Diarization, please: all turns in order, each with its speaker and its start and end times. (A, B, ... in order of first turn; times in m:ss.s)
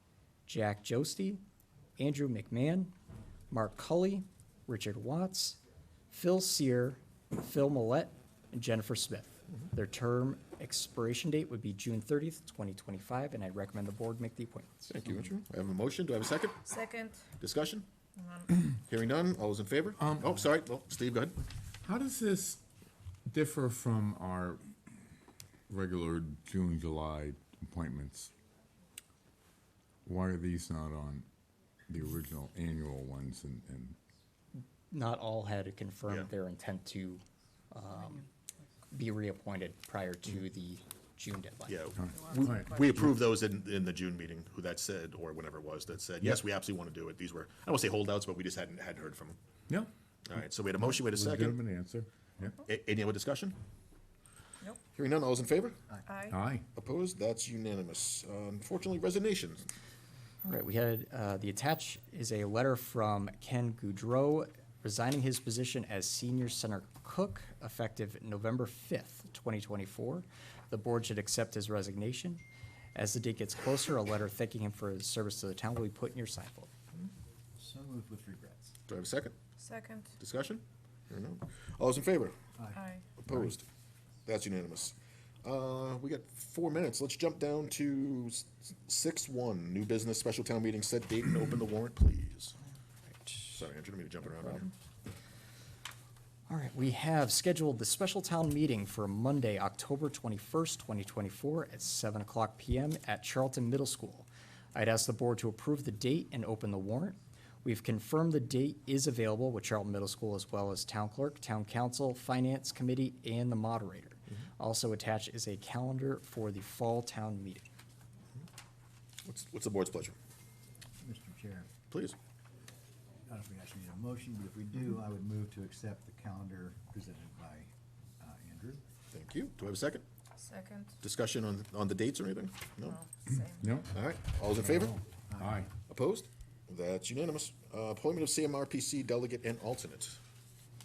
0:00.5-0:01.4 A
0:02.0-0:02.9 A
0:03.5-0:05.6 A
0:06.1-0:15.0 A
0:14.9-0:16.7 B
0:16.7-0:17.3 C
0:17.3-0:17.9 B
0:18.2-0:18.6 C
0:18.7-0:21.4 B
0:20.0-0:20.4 D
0:21.8-0:22.6 D
0:23.3-0:24.6 D
0:25.7-0:28.3 D
0:30.0-0:31.2 D
0:31.9-0:34.0 D
0:34.9-0:38.2 A
0:38.9-0:41.8 A
0:41.7-0:49.4 B
0:42.0-0:43.1 D
0:42.1-0:42.6 C
0:50.2-0:51.6 B
0:50.9-0:52.6 D
0:52.6-0:53.6 B
0:54.9-0:55.8 B
0:56.0-0:56.4 C
0:56.2-0:56.6 D
0:56.7-0:59.7 B
1:00.4-1:12.4 A
1:12.9-1:16.7 A
1:17.6-1:18.7 E
1:18.9-1:19.3 B
1:19.6-1:20.2 C
1:20.2-1:22.4 B
1:22.6-1:22.9 E
1:22.7-1:23.0 C
1:23.2-1:23.6 B
1:24.2-1:32.6 B
1:33.1-1:33.5 A
1:33.5-1:34.7 B
1:36.5-1:57.6 A
1:59.2-2:00.2 B
2:01.0-2:01.7 E
2:03.3-2:08.8 E
2:09.1-2:10.0 B
2:10.4-2:11.0 C
2:11.0-2:13.0 B
2:12.9-2:13.7 C
2:13.4-2:13.9 D
2:13.9-2:15.0 B
2:14.4-2:15.7 D
2:15.3-2:15.6 E
2:15.9-2:20.2 B